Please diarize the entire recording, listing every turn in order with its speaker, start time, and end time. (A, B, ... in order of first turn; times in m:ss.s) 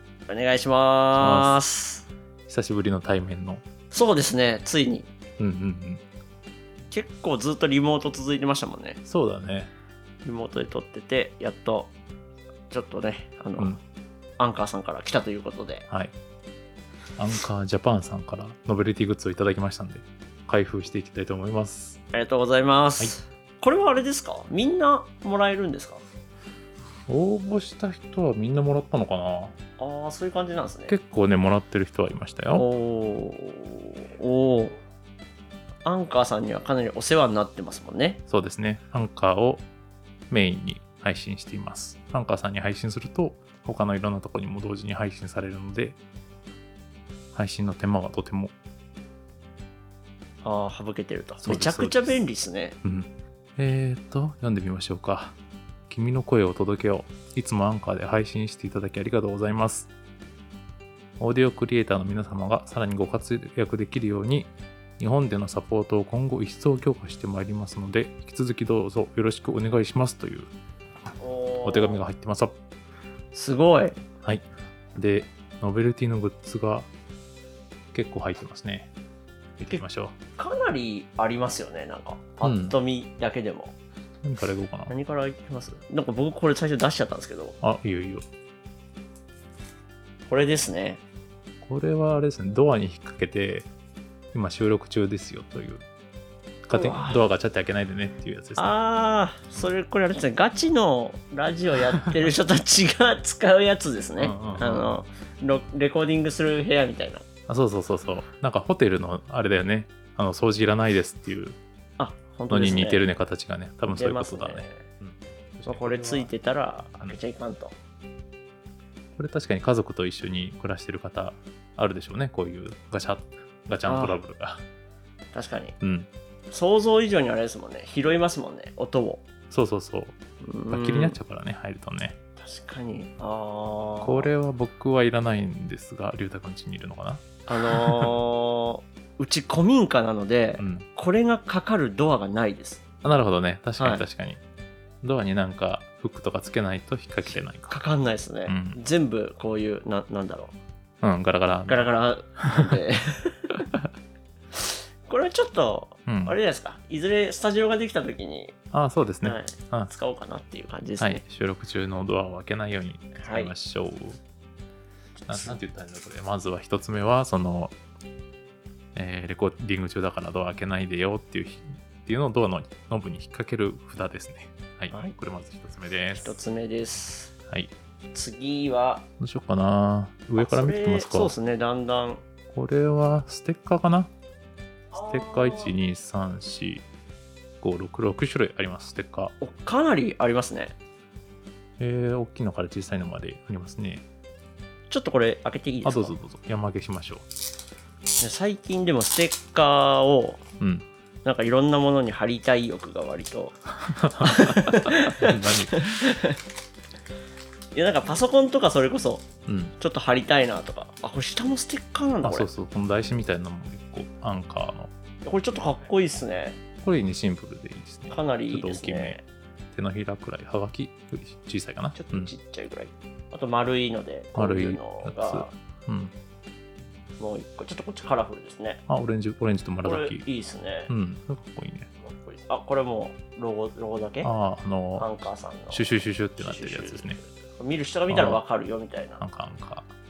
0:00.3-0:02.1 A
0:01.1-0:01.6 B
0:02.5-0:03.6 B
0:03.9-0:05.1 A
0:05.4-0:06.0 B
0:06.9-0:09.0 A
0:09.1-0:09.7 B
0:10.2-0:11.9 A
0:12.7-0:13.8 A
0:14.4-0:15.9 A
0:15.9-0:16.1 B
0:17.2-0:22.0 B
0:22.1-0:26.0 A
0:27.1-0:29.6 B
0:29.8-0:30.9 A
0:30.9-0:32.7 B
0:32.5-0:34.8 A
0:35.8-0:38.2 A
0:38.3-0:39.7 B
0:40.3-0:46.0 B
0:47.3-0:48.6 B
0:50.4-0:52.8 A
0:51.4-0:52.2 B
0:52.8-0:55.4 B
0:55.9-0:59.9 B
1:01.2-1:10.5 B
1:11.2-1:12.0 A
1:11.6-1:12.6 B
1:13.3-1:14.0 A
1:14.2-1:16.9 B
1:17.9-1:18.9 B
1:19.6-1:20.2 B
1:20.4-1:23.8 A
1:22.4-1:22.8 B
1:24.2-1:24.9 B
1:24.9-1:27.6 A
1:27.6-1:28.3 B
1:30.3-1:31.0 A
1:31.6-1:33.7 B
1:34.3-1:35.8 B
1:36.7-1:38.7 B
1:36.7-1:37.2 A
1:38.6-1:47.2 A
1:44.2-1:45.0 B
1:47.5-1:51.6 B
1:52.0-1:53.1 A
1:52.5-1:56.3 B
1:53.9-1:54.9 A
1:55.7-1:57.8 A
1:59.2-2:04.6 B
2:03.9-2:04.2 A
2:05.3-2:05.8 A
2:05.8-2:06.1 B
2:06.5-2:09.2 A
2:09.5-2:10.2 B
2:10.4-2:11.2 A
2:10.7-2:12.2 B
2:12.4-2:14.3 A
2:14.0-2:18.2 B
2:17.5-2:22.8 A
2:20.6-2:20.9 B
2:23.0-2:24.4 B
2:23.8-2:24.0 A
2:25.0-2:27.9 B
2:27.3-2:30.6 A
2:28.4-2:28.8 B
2:31.0-2:32.8 B
2:31.7-2:33.6 A
2:34.6-2:38.5 A
2:36.1-2:36.4 B
2:38.7-2:39.9 B
2:39.2-2:41.2 A
2:41.0-2:44.2 B
2:43.2-2:43.5 A
2:45.2-2:45.6 A
2:45.3-2:47.7 B
2:49.0-2:56.4 B
2:56.2-2:57.3 A
2:58.1-2:59.0 A
2:59.2-3:01.3 B
3:00.4-3:02.2 A
3:02.5-3:04.1 B
3:04.9-3:05.8 A
3:05.0-3:06.9 B
3:07.6-3:09.4 B
3:09.4-3:10.7 A
3:11.8-3:14.1 B
3:14.9-3:16.2 A
3:15.8-3:17.2 B
3:18.2-3:20.4 A
3:20.6-3:20.9 B
3:21.2-3:23.6 A
3:23.9-3:26.0 B
3:24.2-3:26.4 A
3:27.7-3:32.5 A
3:29.5-3:29.7 B
3:32.2-3:34.9 B
3:35.2-3:36.6 A
3:36.8-3:39.2 B
3:38.1-3:39.2 A
3:39.7-3:42.3 B
3:41.9-3:45.5 A
3:44.3-3:46.1 B
3:47.2-3:48.8 A
3:48.9-3:50.2 B
3:49.8-3:50.9 A
3:50.9-3:51.9 B
3:52.0-3:54.3 A
3:54.2-3:57.2 B
3:55.0-3:59.2 A
3:58.1-3:58.4 B
3:59.2-3:59.9 B